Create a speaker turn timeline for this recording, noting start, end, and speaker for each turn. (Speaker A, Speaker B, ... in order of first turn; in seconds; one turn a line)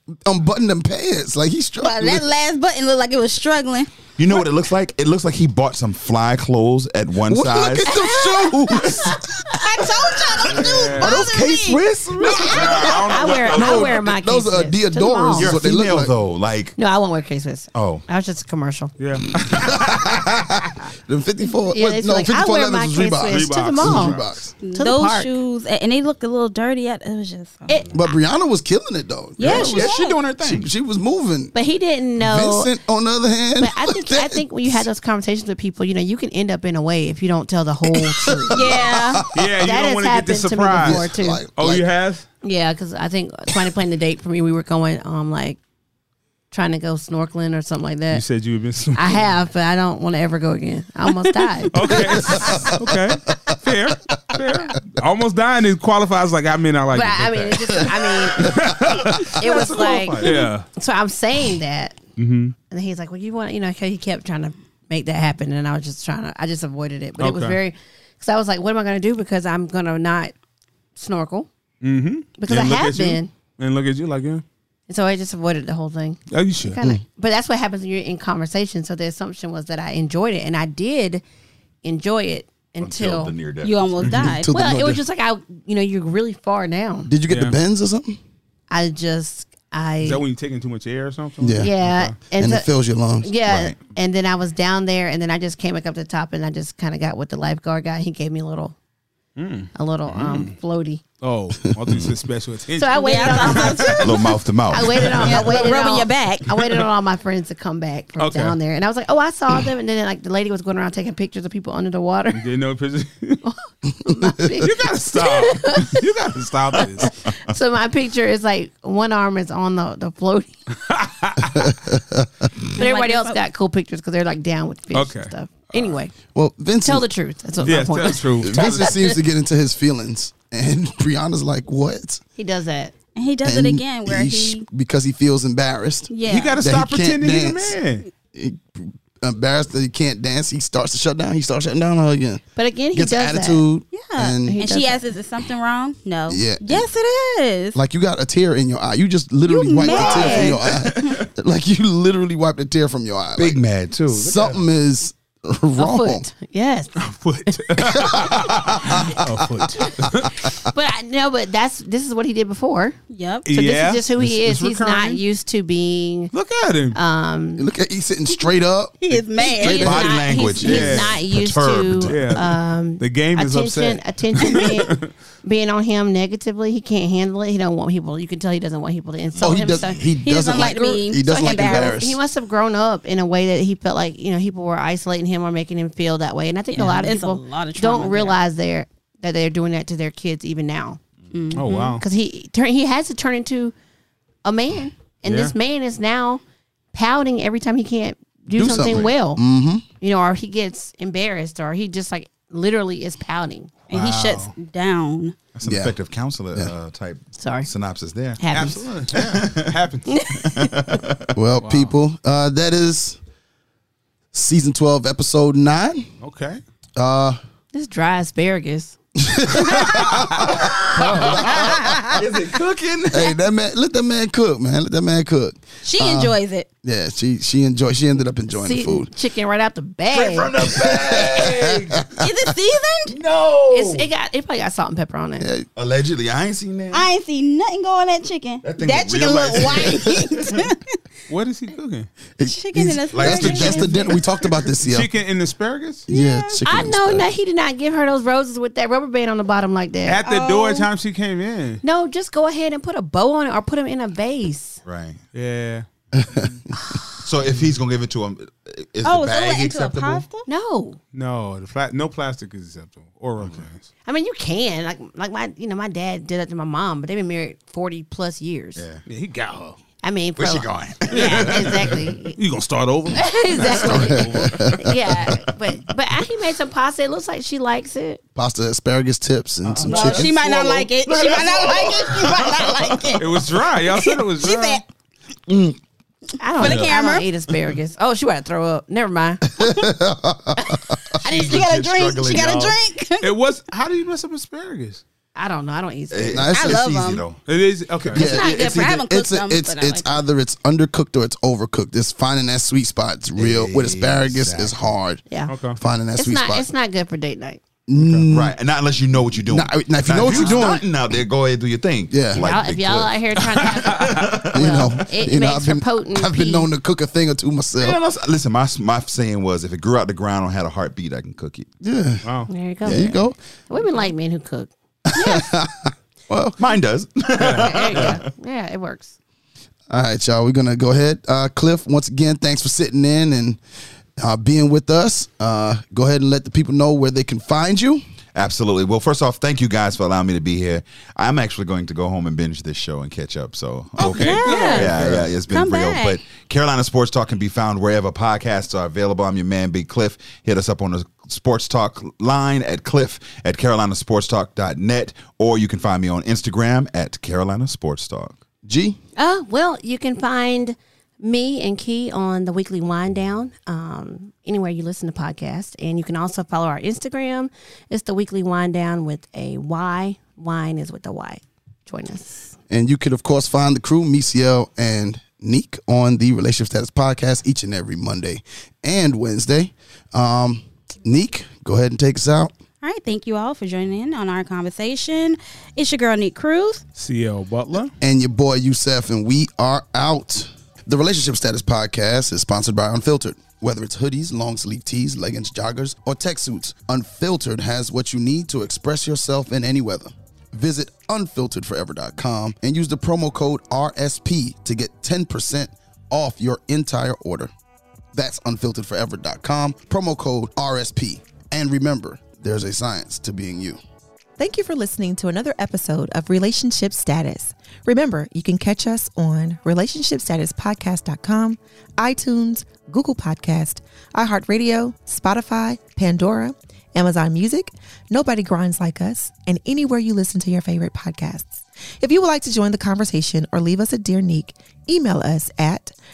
Speaker A: 0.1-2.2
Speaker B: 1.8-3.9
Speaker C: 4.2-7.9
Speaker A: 7.2-9.2
Speaker B: 7.8-13.0
Speaker D: 10.5-11.4
Speaker C: 10.9-14.0
Speaker D: 12.3-13.8
Speaker E: 12.3-15.6
Speaker A: 13.5-16.1
Speaker C: 15.4-16.8
Speaker E: 16.8-18.9
Speaker C: 17.7-18.0
Speaker D: 19.0-20.3
Speaker C: 19.4-19.9
Speaker A: 19.9-24.5
Speaker E: 21.7-24.2
Speaker D: 23.3-24.4
Speaker B: 24.6-27.8
Speaker E: 24.7-25.3
Speaker E: 27.7-27.9
Speaker A: 27.9-31.5
Speaker B: 29.4-30.2
Speaker C: 29.4-30.7
Speaker E: 31.5-32.7
Speaker A: 32.2-34.8
Speaker E: 33.6-41.4
Speaker A: 37.9-39.5
Speaker D: 39.3-42.2
Speaker A: 40.8-41.9
Speaker E: 42.4-45.6
Speaker E: 46.5-48.2
Speaker D: 48.1-49.3
Speaker E: 48.9-52.5
Speaker D: 51.7-57.8
Speaker A: 51.8-53.6
Speaker A: 54.1-54.8
Speaker E: 56.9-62.0
Speaker D: 58.3-60.7
Speaker A: 58.4-59.2
Speaker D: 62.2-62.5
Speaker E: 62.7-70.3
Speaker D: 67.2-67.6
Speaker E: 70.9-71.5
Speaker D: 71.8-74.4
Speaker E: 72.4-73.3
Speaker E: 74.9-81.2
Speaker D: 76.3-76.8
Speaker E: 81.8-83.3
Speaker C: 82.8-84.3
Speaker B: 83.6-84.5
Speaker A: 84.1-85.0
Speaker E: 84.5-87.1
Speaker A: 87.1-88.2
Speaker D: 87.3-87.5
Speaker E: 88.7-90.2
Speaker D: 90.0-92.2
Speaker A: 91.4-91.7
Speaker E: 91.6-92.7
Speaker A: 92.3-93.3
Speaker E: 93.2-98.8
Speaker C: 93.5-93.8
Speaker D: 99.4-100.5
Speaker E: 99.7-101.0
Speaker D: 101.2-104.0
Speaker A: 101.7-102.0
Speaker E: 102.8-112.5
Speaker B: 102.9-104.3
Speaker C: 104.0-105.6
Speaker B: 105.1-106.8
Speaker D: 108.2-108.6
Speaker D: 112.3-113.4
Speaker E: 113.4-116.2
Speaker A: 114.0-114.4
Speaker D: 114.6-117.2
Speaker E: 116.8-120.6
Speaker D: 120.7-121.7
Speaker A: 121.5-122.5
Speaker B: 122.7-123.4
Speaker E: 122.8-126.1
Speaker D: 124.9-125.8
Speaker A: 126.3-127.1
Speaker E: 126.8-129.2
Speaker D: 127.6-128.9
Speaker A: 128.4-132.2
Speaker E: 132.4-132.9
Speaker B: 133.2-134.7
Speaker A: 133.4-137.8
Speaker B: 136.1-136.6
Speaker D: 136.2-138.1
Speaker A: 138.3-142.4
Speaker E: 142.6-143.6
Speaker A: 142.9-144.6
Speaker B: 143.9-147.8
Speaker E: 144.4-145.1
Speaker A: 146.3-146.9
Speaker A: 147.7-156.2
Speaker B: 149.5-151.0
Speaker C: 149.8-151.3
Speaker C: 153.4-154.6
Speaker E: 155.8-156.9
Speaker D: 157.0-160.4
Speaker A: 157.8-160.3
Speaker C: 158.4-158.7
Speaker E: 160.4-162.9
Speaker B: 163.1-163.5
Speaker D: 163.4-165.2
Speaker E: 163.5-166.3
Speaker D: 166.3-167.0
Speaker E: 166.9-167.6
Speaker A: 167.6-170.2
Speaker B: 169.0-170.6
Speaker C: 169.6-172.4
Speaker E: 169.6-180.0
Speaker D: 170.6-171.2
Speaker D: 172.1-175.1
Speaker C: 179.4-179.9
Speaker A: 179.4-182.2
Speaker B: 180.2-182.0
Speaker E: 181.3-191.0
Speaker B: 186.7-188.4
Speaker B: 191.3-192.0
Speaker D: 191.6-192.0
Speaker E: 192.0-193.7
Speaker E: 194.4-196.4
Speaker D: 195.2-195.5
Speaker E: 196.9-199.4
Speaker A: 198.6-199.8
Speaker C: 198.6-199.1
Speaker E: 200.0-203.7
Speaker D: 203.9-204.5
Speaker B: 203.9-205.3
Speaker C: 205.6-208.6
Speaker A: 205.6-205.9
Speaker E: 207.3-207.7
Speaker E: 208.4-208.8
Speaker D: 208.5-210.3
Speaker C: 209.1-209.7
Speaker E: 210.1-210.4
Speaker C: 210.3-211.3
Speaker A: 211.3-213.2
Speaker D: 211.6-211.9
Speaker A: 214.3-216.1
Speaker D: 216.2-216.6
Speaker A: 216.9-217.4
Speaker E: 217.7-218.9
Speaker A: 219.2-222.1
Speaker D: 219.6-220.5
Speaker C: 220.4-223.3
Speaker A: 223.1-229.1
Speaker B: 225.8-226.7
Speaker E: 228.5-230.5
Speaker C: 230.1-232.1
Speaker A: 230.6-232.3
Speaker B: 232.2-233.1
Speaker C: 233.1-234.1
Speaker E: 233.7-235.5
Speaker A: 235.4-235.7
Speaker C: 235.8-237.1
Speaker B: 236.9-240.9
Speaker C: 238.6-240.7
Speaker D: 241.3-242.1
Speaker A: 242.4-245.1
Speaker B: 242.4-244.2
Speaker C: 243.1-244.1
Speaker D: 244.8-246.1
Speaker B: 246.1-246.6
Speaker A: 246.1-247.3
Speaker E: 246.6-250.2
Speaker D: 250.1-251.8
Speaker B: 250.2-250.9
Speaker E: 251.8-254.8
Speaker C: 254.8-255.2
Speaker D: 255.3-256.6
Speaker A: 256.1-256.7
Speaker C: 257.2-260.2
Speaker D: 257.5-257.7
Speaker B: 259.0-260.5
Speaker E: 260.5-261.0
Speaker D: 261.1-263.9
Speaker E: 264.1-268.8
Speaker C: 268.8-269.0
Speaker D: 269.1-269.8
Speaker E: 270.0-272.4
Speaker C: 270.4-271.7
Speaker D: 271.1-274.9
Speaker E: 273.1-278.2
Speaker A: 273.9-274.8
Speaker A: 278.4-280.4
Speaker C: 279.7-283.2
Speaker B: 279.9-283.4
Speaker D: 283.2-284.8
Speaker B: 283.9-284.8
Speaker C: 285.5-285.8
Speaker E: 286.4-289.8
Speaker B: 286.6-287.3
Speaker D: 286.6-286.9
Speaker A: 289.5-291.0
Speaker C: 291.2-292.8
Speaker B: 291.2-293.3
Speaker D: 293.2-295.0
Speaker E: 295.4-296.4
Speaker C: 296.1-297.4
Speaker A: 296.3-296.9
Speaker B: 296.5-297.2
Speaker D: 297.5-298.2
Speaker C: 298.0-298.7
Speaker A: 298.1-305.2
Speaker E: 298.1-298.9
Speaker B: 298.2-300.2
Speaker C: 303.4-304.8
Speaker D: 305.5-305.8
Speaker A: 305.7-306.7
Speaker E: 306.1-307.6
Speaker A: 307.9-308.6
Speaker D: 308.0-308.3
Speaker C: 308.3-314.9
Speaker A: 309.4-310.8
Speaker E: 310.2-310.8
Speaker A: 312.1-312.4
Speaker E: 312.3-316.7
Speaker A: 314.4-318.0
Speaker C: 317.8-321.7
Speaker A: 321.8-322.3
Speaker D: 322.2-322.5
Speaker E: 322.5-324.7
Speaker A: 322.8-323.4
Speaker A: 325.1-326.6
Speaker B: 325.1-325.5
Speaker C: 326.6-328.2
Speaker D: 327.4-327.7
Speaker E: 327.5-329.1
Speaker A: 329.9-333.6
Speaker A: 334.2-338.0
Speaker C: 338.4-358.4
Speaker B: 344.0-344.9
Speaker D: 344.0-345.3
Speaker B: 345.5-346.2
Speaker A: 358.6-359.0
Speaker E: 359.2-372.6
Speaker A: 372.7-382.5
Speaker B: 382.8-386.9
Speaker D: 386.9-387.9
Speaker A: 388.0-407.5
Speaker A: 408.1-413.8
Speaker F: 414.4-435.9